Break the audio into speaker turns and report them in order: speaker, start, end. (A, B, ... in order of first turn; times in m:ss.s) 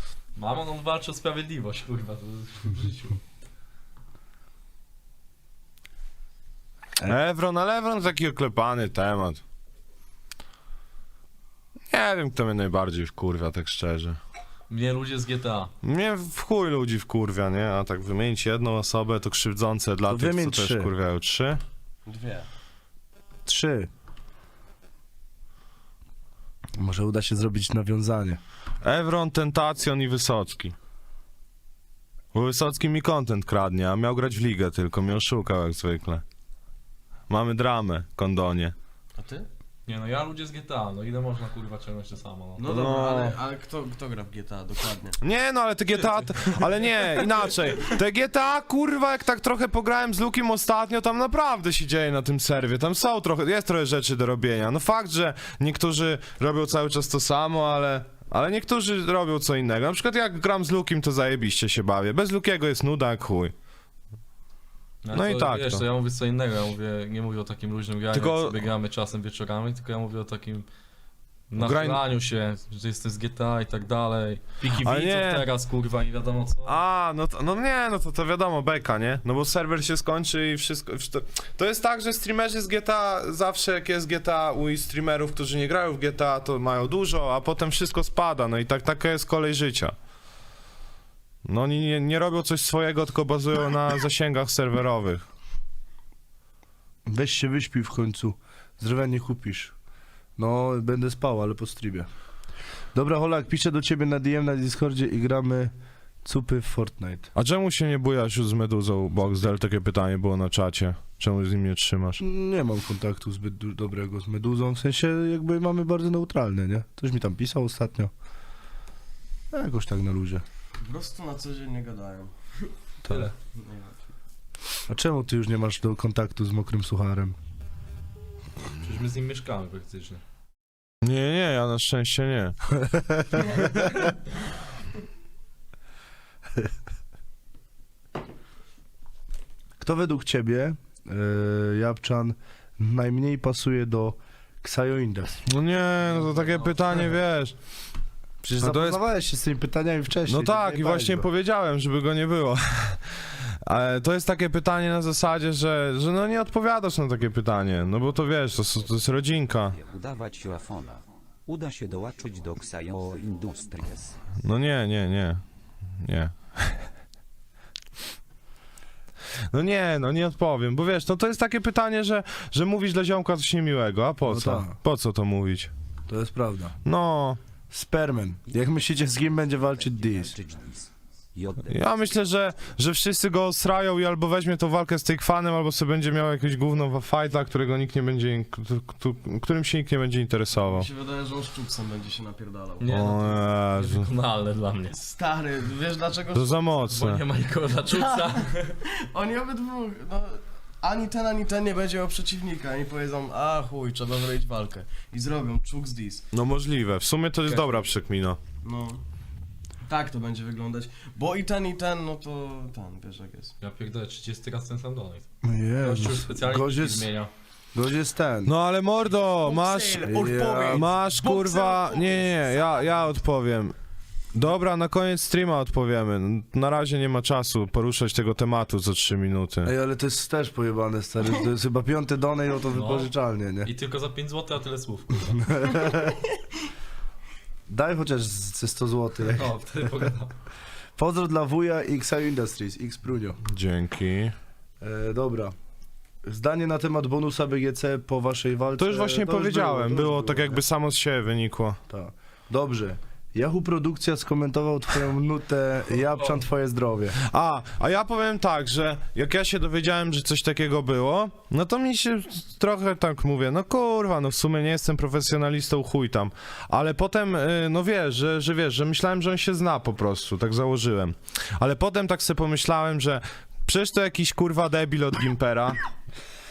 0:00.4-0:03.2 A
0:07.1-0:09.4 B
0:11.9-0:14.2 B
0:14.7-0:15.7 A
0:15.8-0:21.6 B
0:20.1-0:20.9 C
0:22.1-0:22.5 D
0:23.5-0:23.9 C
0:26.8-0:28.4 C
0:28.8-0:30.8 B
0:32.3-0:36.2 B
0:37.3-0:38.8 B
0:39.2-0:39.5 D
0:39.9-0:42.7 A
0:42.6-0:45.2 D
0:42.6-0:43.4 B
0:45.2-1:03.5 B
1:05.0-1:10.7 A
1:05.1-1:05.8 B
1:08.1-1:08.6 B
1:11.5-1:16.8 A
1:11.6-1:12.0 B
1:14.8-1:15.5 B
1:16.7-1:30.0 B
1:31.4-1:35.3 B
1:37.1-1:39.7 C
1:40.4-1:42.1 C
1:42.9-1:45.7 C
1:46.2-1:47.3 C
1:47.4-1:52.2 B
1:52.2-1:58.1 C
1:59.5-2:00.4 C
2:00.8-2:02.7 D
2:03.5-2:04.1 D
2:04.9-2:07.4 C
2:08.8-2:10.2 A
2:11.0-2:13.2 B
2:19.8-2:25.4 C
2:25.5-2:27.6 B
2:26.0-2:27.1 A
2:28.4-2:31.3 C
2:28.6-2:29.0 B
2:30.3-2:39.8 B
2:39.7-2:44.2 E
2:44.4-2:45.4 B
2:46.0-2:46.9 B
2:49.5-2:55.7 B
2:54.2-2:54.8 C
2:56.1-2:56.8 C
2:56.8-2:57.4 B
2:57.7-3:00.4 C
2:58.6-3:01.9 E
3:01.7-3:10.9 B
3:10.6-3:13.2 D
3:12.8-3:15.0 A
3:12.9-3:14.1 B
3:14.9-3:16.8 D
3:16.3-3:17.2 B
3:16.9-3:18.7 A
3:17.9-3:26.2 D
3:26.3-3:28.4 B
3:27.5-3:27.8 A
3:28.6-3:29.0 D
3:29.8-3:33.5 D
3:33.6-3:37.3 A
3:35.4-3:37.1 C
3:37.7-3:38.5 C
3:38.5-3:43.8 B
3:39.3-3:43.1 D
3:40.0-3:40.9 C
3:44.3-3:49.7 B
3:49.6-3:53.7 C
3:52.7-3:53.1 A
3:53.6-3:55.5 A
3:55.4-3:56.2 C
3:57.7-3:59.6 C
3:59.3-4:00.3 A
4:01.0-4:03.4 C
4:03.5-4:04.3 B
4:04.8-4:05.6 C
4:06.3-4:10.6 C
4:08.8-4:11.8 B
4:11.9-4:17.2 C
4:16.0-4:16.4 A
4:17.2-4:35.8 B